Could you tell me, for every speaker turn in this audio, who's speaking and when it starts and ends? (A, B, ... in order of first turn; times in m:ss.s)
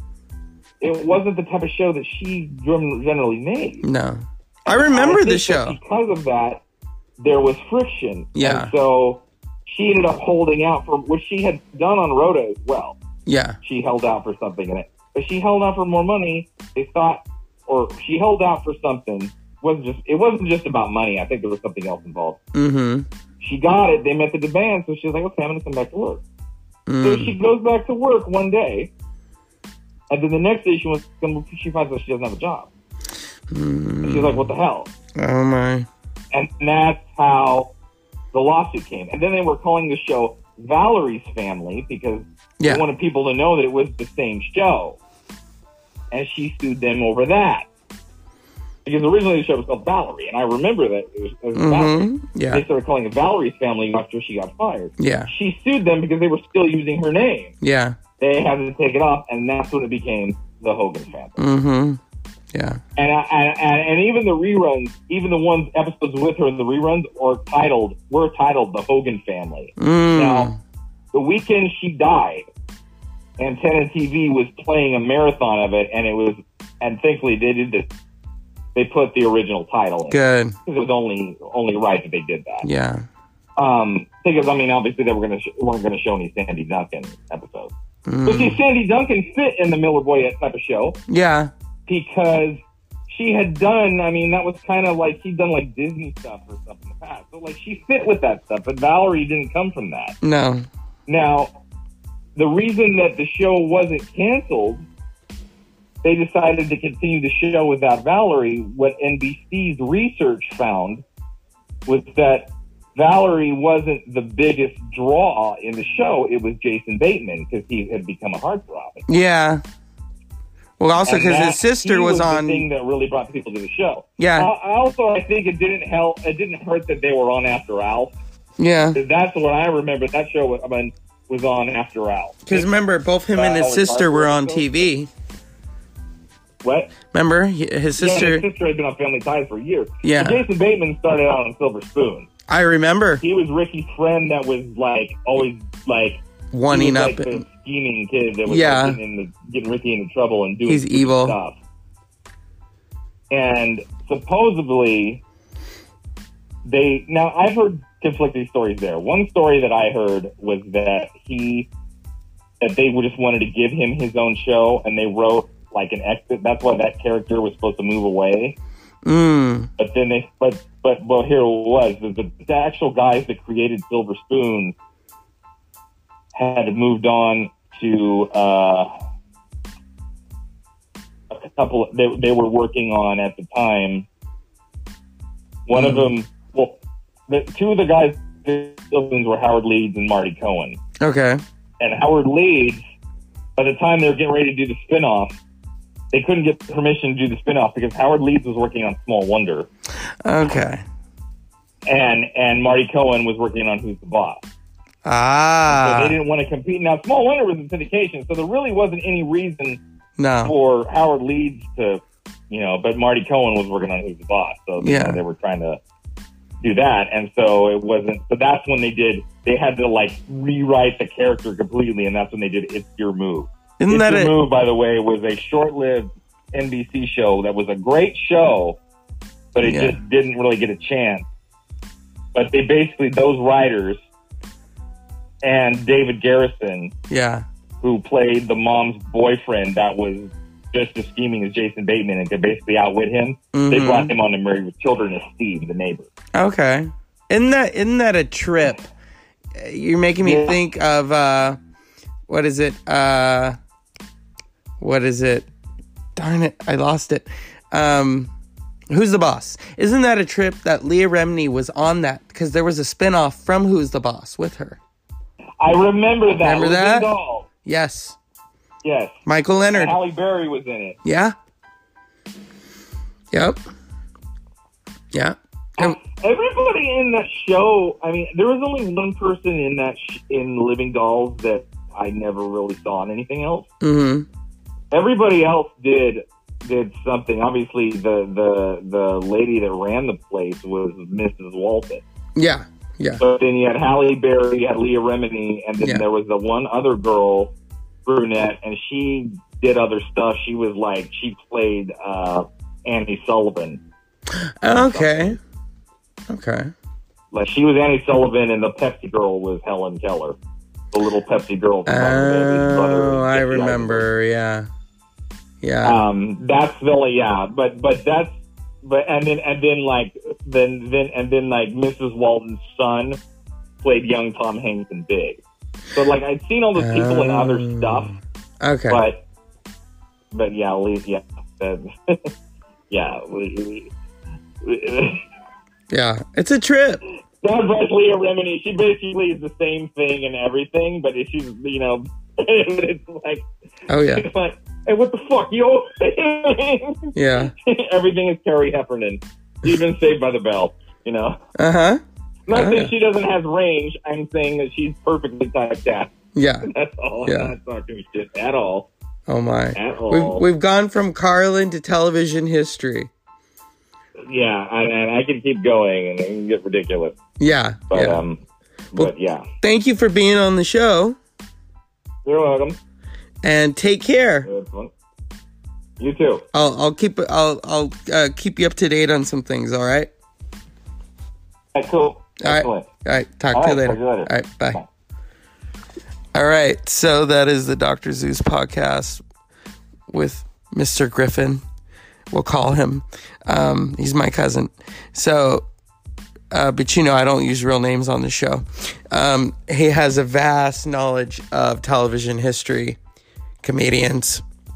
0:00.8-0:03.8 A
0:03.8-0:05.8 B
0:04.6-0:06.6 A
0:07.2-0:13.0 A
0:08.3-0:08.7 B
0:13.2-0:13.6 B
0:13.6-0:22.4 A
0:22.5-0:23.0 B
0:23.4-0:26.2 A
0:26.9-0:27.3 B
0:27.0-0:28.9 A
0:30.1-0:32.7 A
0:33.5-0:34.5 B
0:34.0-0:34.9 A
0:35.2-0:35.9 B
0:36.3-0:37.7 A
0:38.3-0:45.0 A
0:42.6-0:42.8 B
0:46.1-0:47.7 A
0:48.8-0:57.5 A
0:51.5-0:52.6 B
0:55.0-0:55.3 B
0:57.6-0:58.0 B
0:58.2-1:01.4 A
1:01.4-1:02.0 B
1:02.5-1:02.8 B
1:03.0-1:10.5 A
1:09.8-1:10.6 B
1:11.1-1:12.5 A
1:13.4-1:17.9 A
1:18.7-1:22.7 A
1:20.1-1:20.6 B
1:22.6-1:23.0 B
1:23.6-1:27.7 A
1:28.1-1:28.6 B
1:28.2-1:31.0 A
1:31.1-1:31.5 B
1:31.9-1:40.2 A
1:40.2-1:40.6 B
1:41.1-1:41.5 A
1:42.4-1:44.9 A
1:46.0-1:51.0 A
1:51.9-1:59.0 A
1:59.1-1:59.6 B
2:00.8-2:02.6 B
2:01.0-2:08.1 A
2:04.2-2:04.5 B
2:08.6-2:09.0 B
2:08.9-2:12.7 A
2:12.5-2:15.1 B
2:13.3-2:14.9 A
2:16.6-2:16.9 A
2:17.1-2:18.4 B
2:18.0-2:22.3 A
2:20.0-2:20.4 B
2:22.5-2:23.2 B
2:23.2-2:31.6 A
2:26.5-2:27.4 B
2:28.4-2:29.0 B
2:30.7-2:31.4 B
2:33.3-2:35.2 A
2:36.6-2:41.7 A
2:42.6-2:48.6 A
2:49.0-2:49.7 B
2:49.8-2:54.7 A
2:56.3-2:58.9 A
3:01.3-3:04.0 A
3:05.7-3:06.8 A
3:05.7-3:06.1 B
3:07.3-3:10.8 A
3:11.0-3:11.4 B
3:11.8-3:12.8 A
3:13.6-3:15.3 A
3:16.1-3:19.7 A
3:20.2-3:20.8 B
3:21.9-3:24.4 A
3:25.0-3:26.2 B
3:25.7-3:29.8 A
3:30.2-3:30.5 B
3:30.4-3:35.8 A
3:34.8-3:35.2 B
3:36.6-3:48.8 A
3:43.8-3:44.3 B
3:49.5-3:51.3 A
3:49.6-3:50.0 B
3:52.3-3:54.0 A
3:55.4-3:56.9 A
3:57.1-3:57.4 B
3:57.8-4:06.1 A
4:03.5-4:04.1 B
4:06.3-4:08.9 B
4:09.5-4:11.6 B
4:10.2-4:10.6 A
4:12.3-4:13.6 B
4:14.8-4:15.5 B
4:16.2-4:18.3 B
4:18.9-4:24.8 B
4:25.6-4:27.5 A
4:26.4-4:27.1 B
4:27.6-4:28.2 B
4:28.8-4:29.2 A
4:29.2-4:29.9 B
4:29.7-4:31.0 A
4:31.0-4:31.3 B
4:33.3-4:33.6 B
4:35.1-4:36.0 B
4:35.8-4:43.7 A
4:43.8-4:44.2 B
4:44.9-4:52.0 A
4:52.4-4:53.2 B
4:53.2-4:57.5 A
4:58.0-5:03.8 A
5:04.3-5:05.4 B
5:04.6-5:05.4 A
5:06.3-5:06.7 B
5:07.3-5:10.4 A
5:10.9-5:14.1 A
5:11.9-5:14.7 B
5:15.6-5:16.0 B
5:15.8-5:23.2 A
5:23.8-5:28.1 A
5:26.8-5:29.0 B
5:28.9-5:29.2 A
5:30.3-5:32.3 A
5:32.9-5:33.9 A
5:34.6-5:35.2 A
5:35.9-5:37.0 B
5:37.4-5:43.5 A
5:43.9-5:44.3 B
5:44.1-5:51.4 A
5:47.1-5:47.5 B
5:51.6-5:52.9 B
5:52.5-5:56.1 A
5:56.3-5:56.7 B
5:56.6-5:58.9 A
5:57.2-5:57.5 B
5:59.3-6:03.1 B
5:59.7-6:00.4 A
6:04.3-6:07.2 A
6:07.4-6:08.2 B
6:07.9-6:08.4 A
6:08.9-6:09.4 A
6:09.6-6:11.2 B
6:12.2-6:12.8 A
6:13.4-6:14.5 B
6:14.4-6:14.9 A
6:16.0-6:16.4 A
6:16.5-6:20.1 B
6:21.7-6:22.9 A
6:22.4-6:24.8 B
6:23.5-6:24.9 A
6:26.3-6:29.2 B
6:30.1-6:31.6 B
6:32.3-6:35.6 B
6:36.5-6:43.0 B
6:43.6-6:44.4 B